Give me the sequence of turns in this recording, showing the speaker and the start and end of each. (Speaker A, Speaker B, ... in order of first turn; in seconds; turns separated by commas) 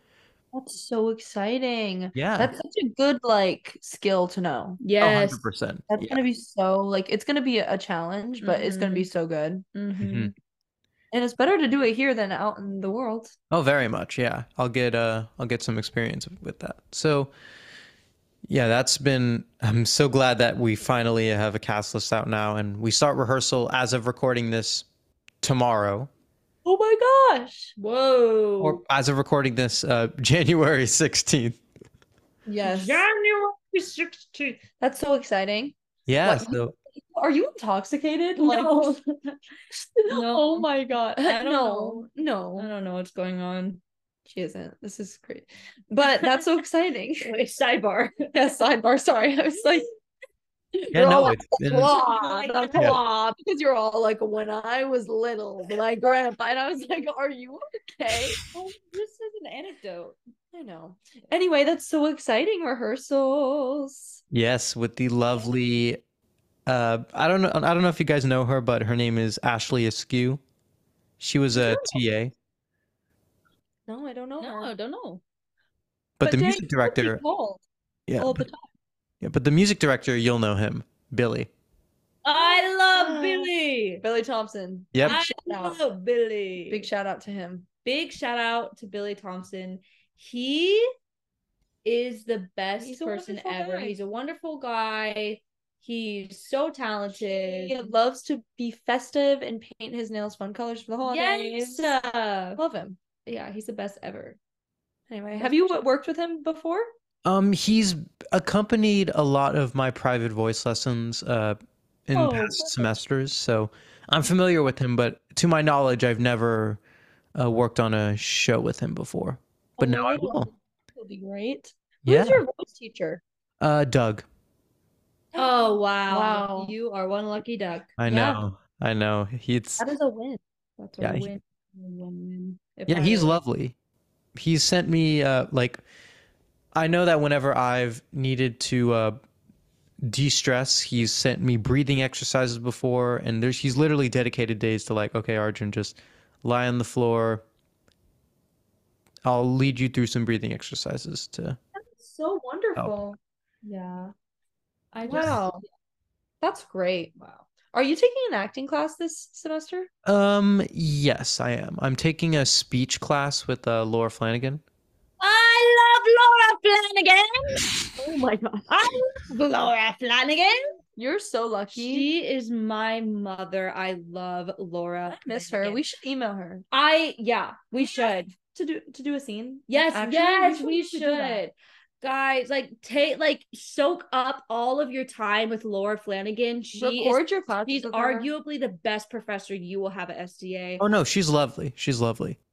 Speaker A: 0.5-4.8, Speaker B: 2.1-2.5, Speaker C: 4.8-5.4, Speaker B: 5.0-6.2, Speaker A: 5.9-9.6, Speaker C: 8.4-9.1, Speaker C: 9.8-10.3, Speaker B: 10.0-10.3, Speaker A: 11.1-13.3, Speaker B: 13.5-17.3, Speaker B: 18.5-24.9, Speaker B: 25.4-26.1, Speaker A: 26.6-27.7, Speaker C: 27.8-28.8, Speaker B: 28.6-31.6, Speaker A: 32.5-33.0, Speaker C: 32.6-34.6, Speaker A: 34.8-39.0, Speaker B: 36.1-36.8, Speaker C: 38.4-39.4, Speaker A: 39.8-42.7, Speaker C: 40.1-40.7, Speaker C: 41.2-43.8, Speaker A: 44.3-47.3, Speaker C: 46.0-46.5, Speaker C: 47.2-48.4, Speaker A: 48.3-49.9, Speaker A: 50.8-58.5, Speaker B: 50.9-51.9, Speaker C: 51.8-53.4, Speaker C: 58.5-60.2, Speaker A: 60.5-64.2, Speaker B: 64.3-66.0, Speaker B: 66.7-70.4, Speaker B: 71.2-72.3, Speaker C: 71.6-71.9, Speaker A: 73.9-74.7, Speaker C: 74.4-75.2, Speaker B: 76.2-77.2, Speaker A: 76.2-77.6, Speaker B: 78.1-78.5, Speaker A: 78.2-78.6, Speaker B: 79.2-81.5, Speaker C: 82.2-84.0, Speaker A: 82.3-85.8, Speaker C: 85.0-86.9, Speaker A: 86.7-87.7, Speaker C: 87.8-90.8, Speaker C: 91.8-97.8, Speaker A: 92.8-94.0, Speaker A: 97.2-101.9, Speaker C: 101.0-102.6, Speaker A: 102.6-103.0, Speaker C: 103.2-104.4, Speaker A: 105.1-106.9, Speaker C: 105.3-105.8, Speaker B: 107.2-116.8, Speaker A: 112.2-112.8, Speaker B: 117.3-120.5, Speaker A: 119.8-123.2, Speaker B: 122.0-122.4, Speaker B: 123.6-124.2, Speaker A: 125.3-126.7, Speaker C: 125.3-128.4, Speaker B: 128.0-129.8, Speaker A: 129.8-130.4, Speaker C: 130.8-133.4, Speaker B: 131.0-131.3, Speaker B: 132.9-133.8, Speaker B: 134.3-135.8, Speaker B: 136.7-139.2, Speaker B: 140.0-147.4, Speaker B: 149.2-151.6, Speaker A: 151.8-153.2, Speaker C: 153.6-154.1, Speaker C: 154.9-155.6, Speaker A: 155.0-155.6, Speaker A: 156.4-157.1, Speaker C: 157.2-157.5, Speaker A: 157.7-159.9, Speaker B: 160.0-164.6, Speaker C: 165.2-167.7, Speaker A: 168.0-168.7, Speaker C: 168.7-170.6, Speaker A: 171.0-172.1, Speaker C: 171.7-175.8, Speaker A: 175.1-176.6, Speaker C: 176.7-178.3, Speaker A: 177.8-181.4, Speaker C: 179.7-190.8, Speaker A: 186.7-188.3, Speaker B: 190.8-192.4